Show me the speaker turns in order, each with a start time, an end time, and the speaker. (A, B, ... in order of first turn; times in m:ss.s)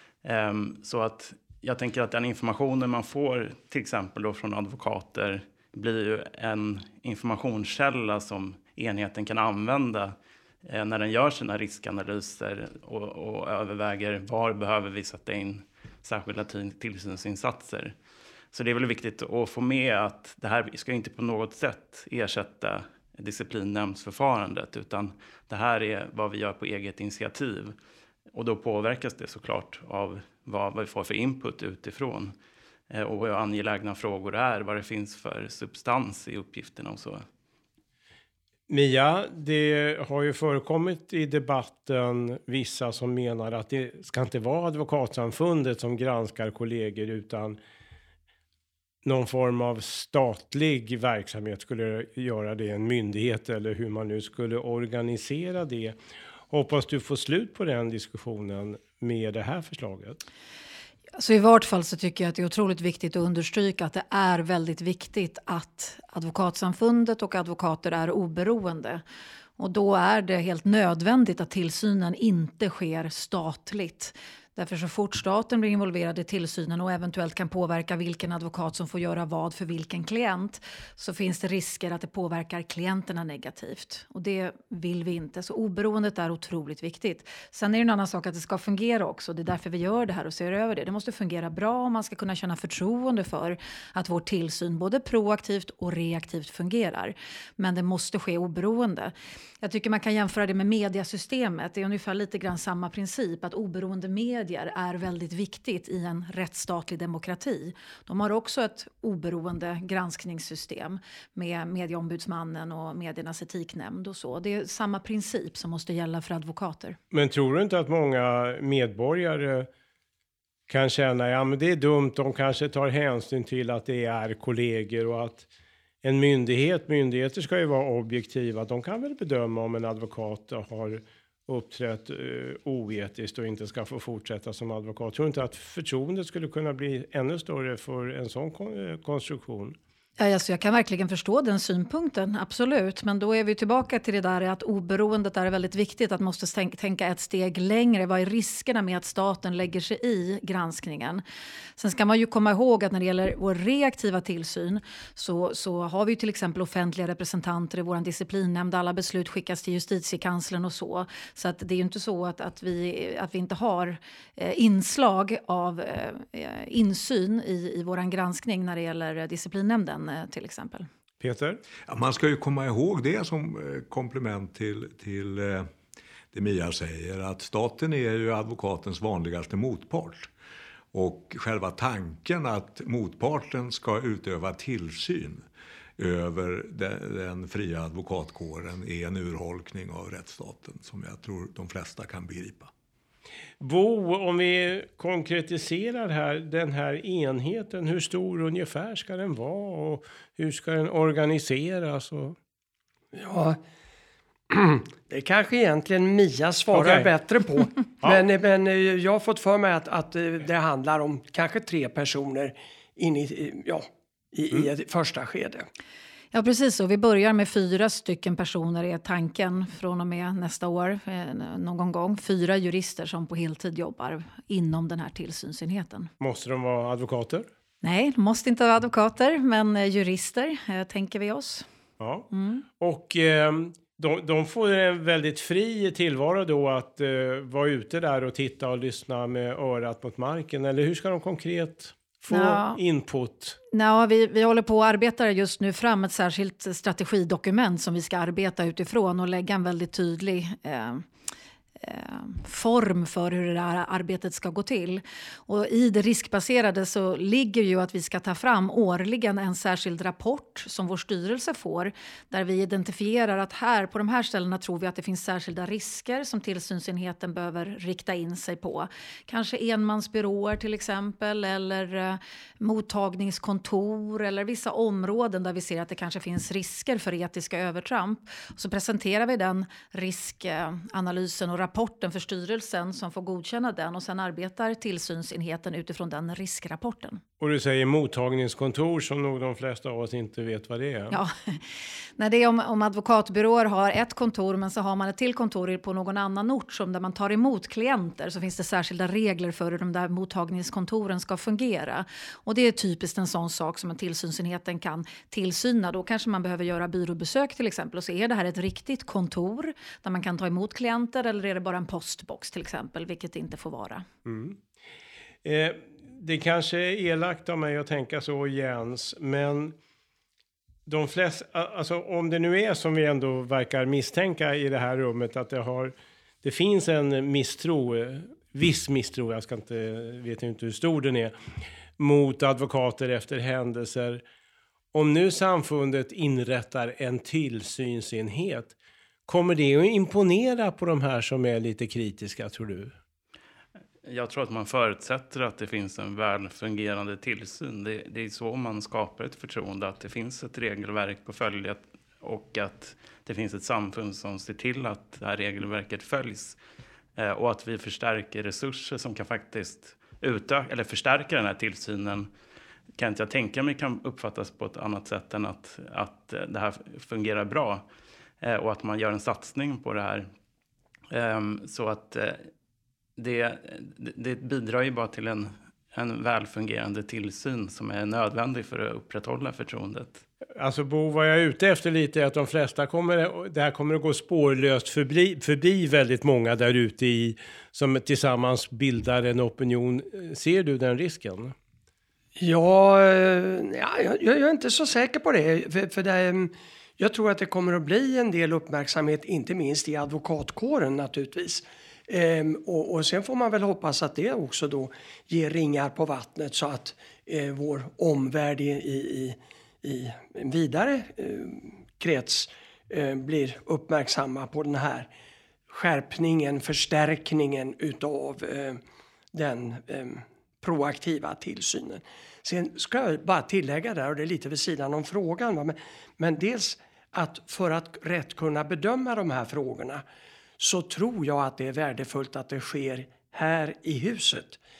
0:00.2-0:17.9 A
0:18.5-0:27.8 A
0:28.3-0:32.3 A
0:32.9-0:37.2 A
0:38.7-0:47.6 B
0:49.0-0:56.0 B
0:56.5-1:00.2 B
1:01.2-1:09.0 C
1:09.6-1:57.0 C
1:57.1-1:59.7 B
2:00.7-2:05.5 B
2:06.0-2:19.8 B
2:20.2-2:31.2 C
2:31.8-2:50.9 C
2:51.2-2:51.6 B
2:51.8-2:55.7 D
2:56.3-3:00.3 D
3:00.9-3:05.4 D
3:06.0-3:12.7 D
3:13.6-3:22.4 B
3:23.1-3:23.6 E
3:24.5-3:35.6 E
3:26.7-3:27.1 B
3:36.3-3:46.1 C
3:46.2-3:47.5 B
3:47.8-3:51.6 C
3:52.0-3:52.2 B
3:52.3-3:52.6 C
3:52.8-4:03.6 B
4:02.3-4:02.8 C
4:03.7-4:11.1 C
4:11.8-4:47.2 C
4:47.4-4:51.2 B
4:51.1-4:51.6 C
4:52.2-5:14.0 C
5:14.2-5:14.6 B
5:15.4-5:19.8 B
5:20.8-5:31.3 B
5:32.0-5:34.2 B
5:34.9-5:38.7 B
5:39.3-5:42.9 B
5:44.0-5:56.6 A
5:57.2-6:02.3 A
6:02.9-6:07.8 A
6:08.4-6:10.3 A
6:11.1-6:12.5 A
6:13.2-6:20.2 A
6:20.6-6:31.5 B
6:32.4-6:55.1 E
6:55.7-6:58.8 E
6:59.3-7:10.0 E
7:10.6-7:14.6 E